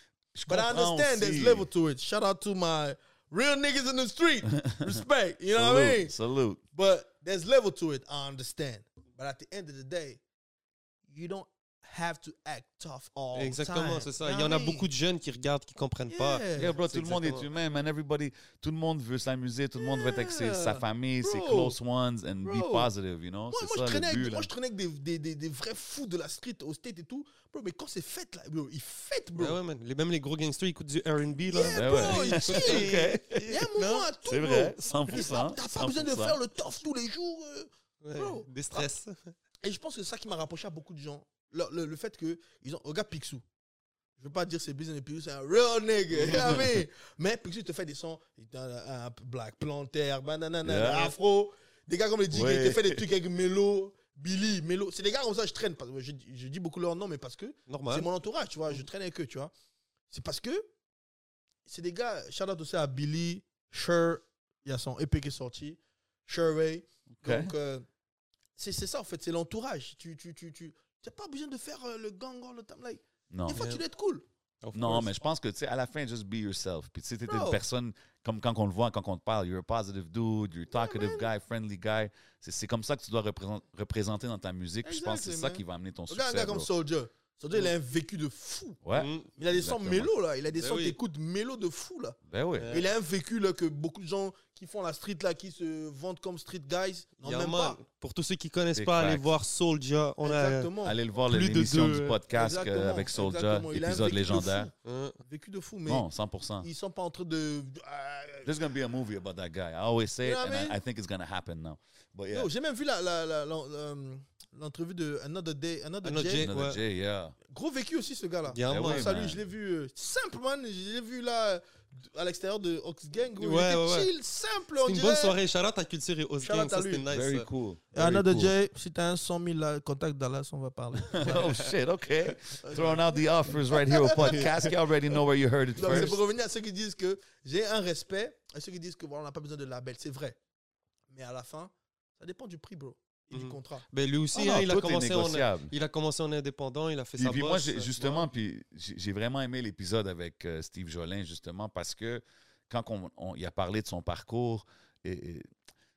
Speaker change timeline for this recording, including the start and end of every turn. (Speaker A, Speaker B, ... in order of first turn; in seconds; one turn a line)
Speaker A: 0.3-1.7
Speaker B: 0.5-6.2
Speaker A: 4.6-5.0
Speaker A: 5.5-6.6
Speaker B: 6.7-10.2
Speaker B: 11.1-14.9
Speaker C: 13.4-17.5
Speaker B: 16.1-16.8
Speaker A: 16.6-24.5
Speaker B: 19.8-21.8
Speaker B: 22.4-22.9
Speaker B: 23.5-29.6
Speaker C: 29.4-34.1
Speaker B: 31.5-38.9
Speaker A: 31.7-33.7
Speaker A: 34.2-36.4
Speaker C: 38.0-39.3
Speaker B: 39.6-43.4
Speaker B: 44.2-59.5
Speaker A: 50.6-51.1
Speaker A: 52.3-53.0
Speaker C: 57.7-58.1
Speaker B: 60.1-60.7
Speaker B: 61.7-67.9
Speaker A: 67.2-67.5
Speaker B: 68.6-74.2
Speaker A: 73.3-73.6
Speaker C: 73.5-73.8
Speaker C: 74.6-75.1
Speaker A: 74.7-86.7
Speaker B: 77.3-77.6
Speaker B: 80.7-81.3
Speaker B: 84.8-88.8
Speaker A: 88.8-90.1
Speaker C: 88.9-89.3
Speaker B: 89.3-97.8
Speaker C: 90.5-91.0
Speaker A: 92.3-92.8
Speaker C: 92.6-92.9
Speaker C: 97.2-100.7
Speaker A: 98.7-99.3
Speaker B: 100.2-101.0
Speaker A: 100.8-104.7
Speaker C: 101.3-102.2
Speaker B: 102.3-106.1
Speaker C: 104.8-105.2
Speaker A: 105.9-106.7
Speaker B: 106.6-108.5
Speaker A: 108.5-112.5
Speaker B: 110.2-110.8
Speaker B: 112.3-116.5
Speaker C: 116.0-116.8
Speaker A: 116.4-117.4
Speaker B: 117.5-125.4
Speaker C: 118.5-119.1
Speaker A: 118.7-119.4
Speaker C: 123.4-124.1
Speaker C: 124.8-127.5
Speaker B: 126.4-127.1
Speaker A: 127.1-128.6
Speaker B: 127.9-131.7
Speaker A: 131.1-136.2
Speaker B: 132.6-134.7
Speaker C: 134.2-134.6
Speaker B: 135.8-140.4
Speaker C: 135.8-136.1
Speaker B: 141.1-143.8
Speaker C: 143.3-148.3
Speaker A: 144.3-145.7
Speaker A: 147.2-155.5